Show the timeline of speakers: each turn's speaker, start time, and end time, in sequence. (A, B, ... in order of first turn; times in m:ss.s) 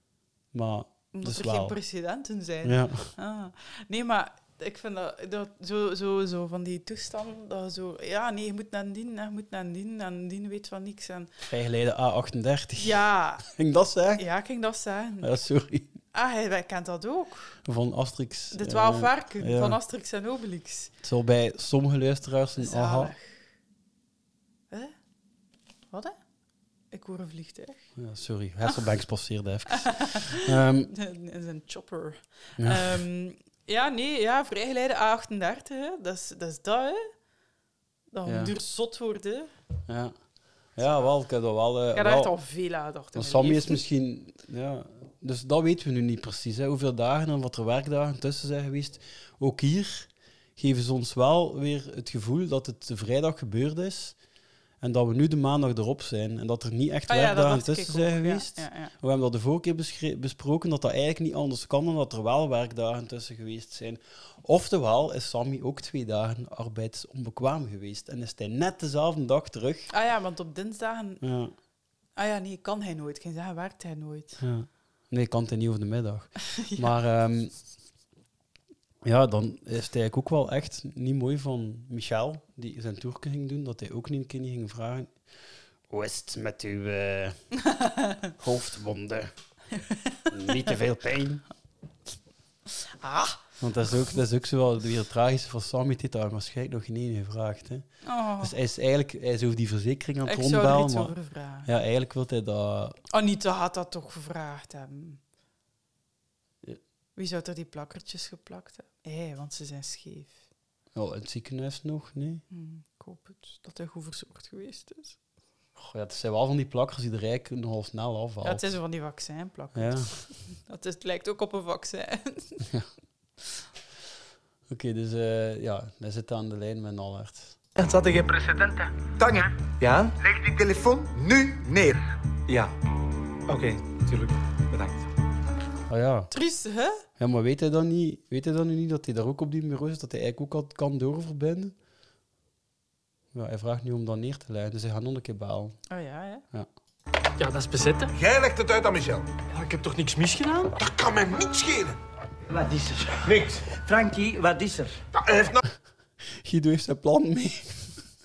0:00.5-0:01.8 A
0:01.1-0:11.3 B
0:02.6-0:03.1 A
0:11.5-0:14.2 A
0:12.8-0:13.5 B
0:14.2-0:15.3 B
0:15.2-0:15.9 A
0:16.1-0:17.6 B
0:17.6-0:19.8 A
0:18.5-0:20.9 B
0:21.0-0:23.1 A
0:22.6-0:23.4 B
0:25.9-0:26.2 B
0:26.9-0:27.9 B
0:28.0-0:30.9 A
0:29.8-0:37.1 B
0:32.6-0:33.0 A
0:38.1-0:39.5 B
0:38.2-0:38.5 A
0:39.9-0:40.2 A
0:40.8-0:42.3 A
0:40.8-0:41.1 B
0:41.9-0:43.8 B
0:43.1-0:54.2 A
0:54.8-1:09.9 A
0:57.1-0:58.9 B
1:09.9-1:11.2 B
1:11.2-1:11.5 A
1:12.2-1:14.4 B
1:14.4-1:17.5 A
1:16.6-1:16.9 B
1:19.0-1:25.1 A
1:25.9-1:27.4 A
1:27.7-1:28.0 B
1:28.4-1:29.3 A
1:29.9-1:30.2 B
1:30.3-1:31.4 A
1:33.0-1:33.4 B
1:33.6-1:37.9 A
1:38.0-1:38.5 B
1:38.4-1:43.0 A
1:40.3-1:41.7 B
1:43.1-1:45.2 B
1:47.2-1:50.4 B
1:50.9-1:52.4 A
1:52.5-1:55.2 B
1:55.8-1:58.7 A
1:58.4-2:02.6 B
1:59.7-2:00.1 A
2:04.7-2:07.6 A
2:07.8-2:08.9 C
2:09.2-2:09.5 D
2:09.8-2:10.1 C
2:10.2-2:12.0 D
2:13.5-2:14.9 C
2:15.9-2:16.3 A
2:16.3-2:17.0 B
2:17.2-2:21.8 A
2:23.3-2:25.8 A
2:25.9-2:26.4 B
2:27.4-2:28.2 E
2:28.2-2:29.3 F
2:29.5-2:30.8 E
2:30.8-2:32.0 F
2:32.5-2:35.0 G
2:33.3-2:33.6 F
2:35.1-2:35.6 F
2:36.4-2:38.0 A